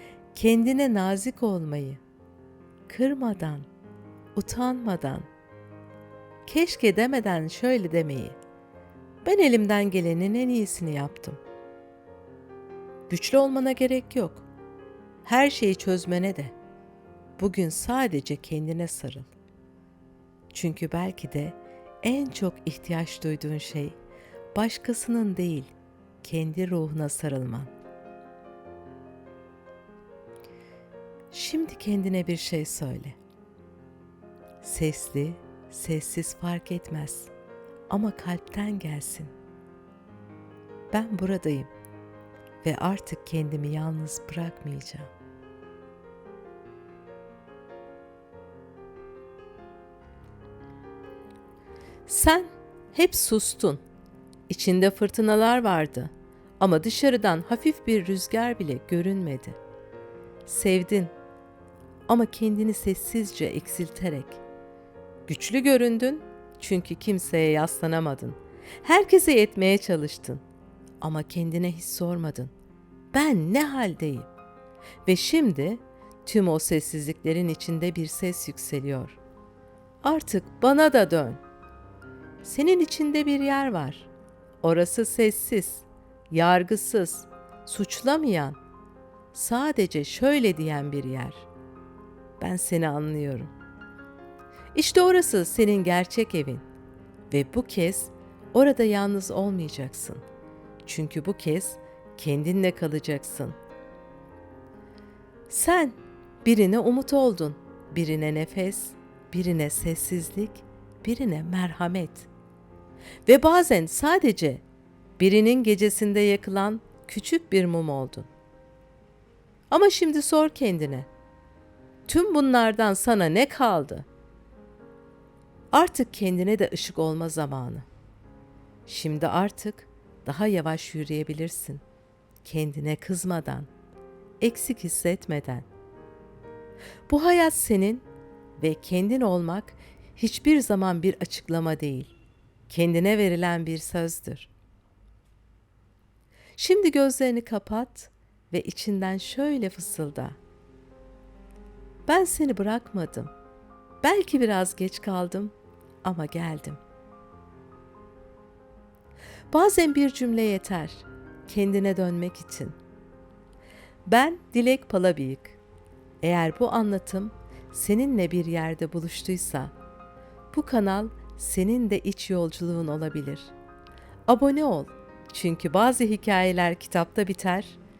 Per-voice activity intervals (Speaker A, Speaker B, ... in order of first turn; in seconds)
Speaker A: 0.3-2.0, 2.9-3.7, 4.3-5.3, 6.5-8.4, 9.2-11.4, 13.1-14.5, 15.2-16.5, 17.4-19.3, 20.5-24.0, 24.5-27.7, 31.3-33.2, 34.6-37.3, 37.9-39.3, 40.9-41.7, 42.6-45.1, 52.1-53.8, 54.5-59.6, 60.5-61.1, 62.1-64.4, 65.3-70.4, 71.0-72.5, 73.1-74.3, 75.0-79.2, 80.0-81.4, 82.4-84.1, 84.6-88.6, 89.3-91.5, 92.4-93.5, 94.7-96.6, 97.3-100.2, 100.8-103.6, 105.5-112.3, 113.2-114.6, 115.2-118.3, 119.7-121.1, 122.1-124.1, 125.7-127.9, 128.9-131.8, 132.4-133.7, 134.4-135.7, 137.1-138.1, 138.6-142.1, 142.7-144.5, 146.6-150.4, 152.1-153.3, 154.0-156.8, 159.5-162.7, 164.1-165.6, 166.2-169.7, 170.5-173.5, 174.3-177.8